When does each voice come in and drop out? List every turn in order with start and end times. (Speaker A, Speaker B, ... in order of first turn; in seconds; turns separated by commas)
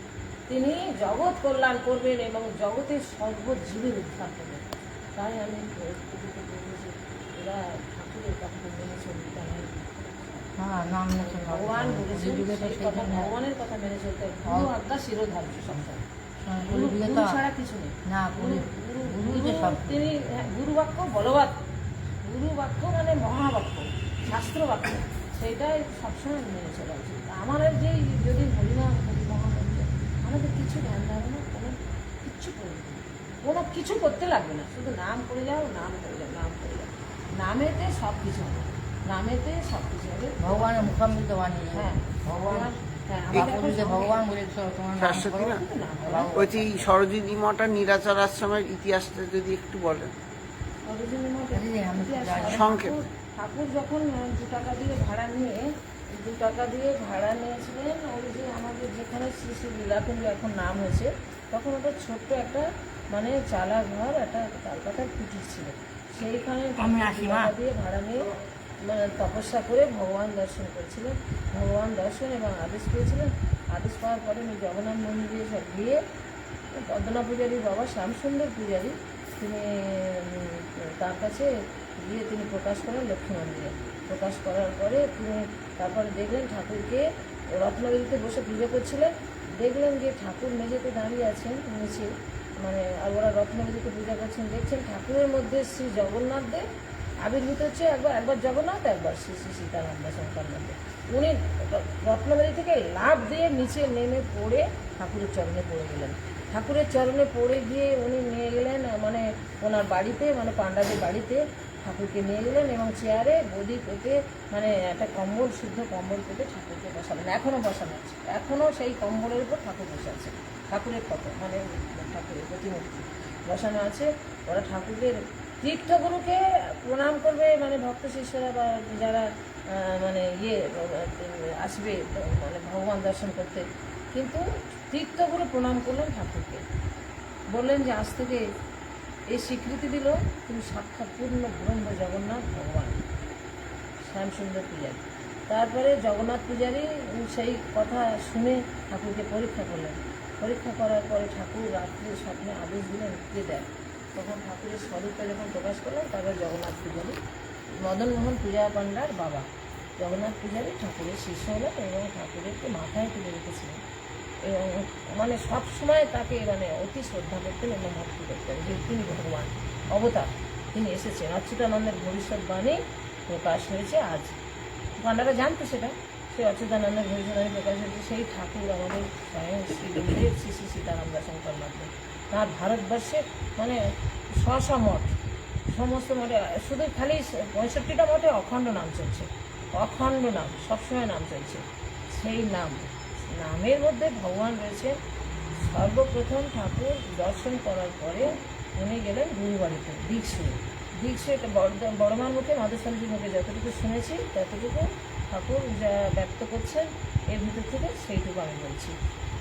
Speaker A: 0.5-10.4, Speaker B: 10.6-13.3, Speaker A: 11.2-16.0, Speaker B: 14.4-14.7, Speaker B: 16.4-17.4, Speaker A: 16.6-21.6, Speaker B: 18.1-20.0, Speaker A: 22.2-41.0, Speaker B: 40.4-42.7, Speaker A: 41.7-44.2, Speaker B: 43.3-46.7, Speaker C: 45.0-45.6, Speaker A: 45.3-46.8, Speaker C: 46.3-50.2, Speaker A: 50.9-68.3, Speaker B: 51.5-52.7, Speaker C: 52.4-53.0, Speaker B: 66.8-67.5, Speaker A: 68.8-76.0, Speaker A: 76.7-96.7, Speaker A: 97.2-136.6, Speaker A: 137.5-138.4, Speaker A: 139.3-143.0, Speaker A: 144.0-157.2, Speaker A: 157.7-159.5, Speaker A: 160.0-163.8, Speaker A: 164.4-174.3, Speaker A: 175.0-185.2, Speaker A: 185.7-195.0, Speaker A: 195.6-209.0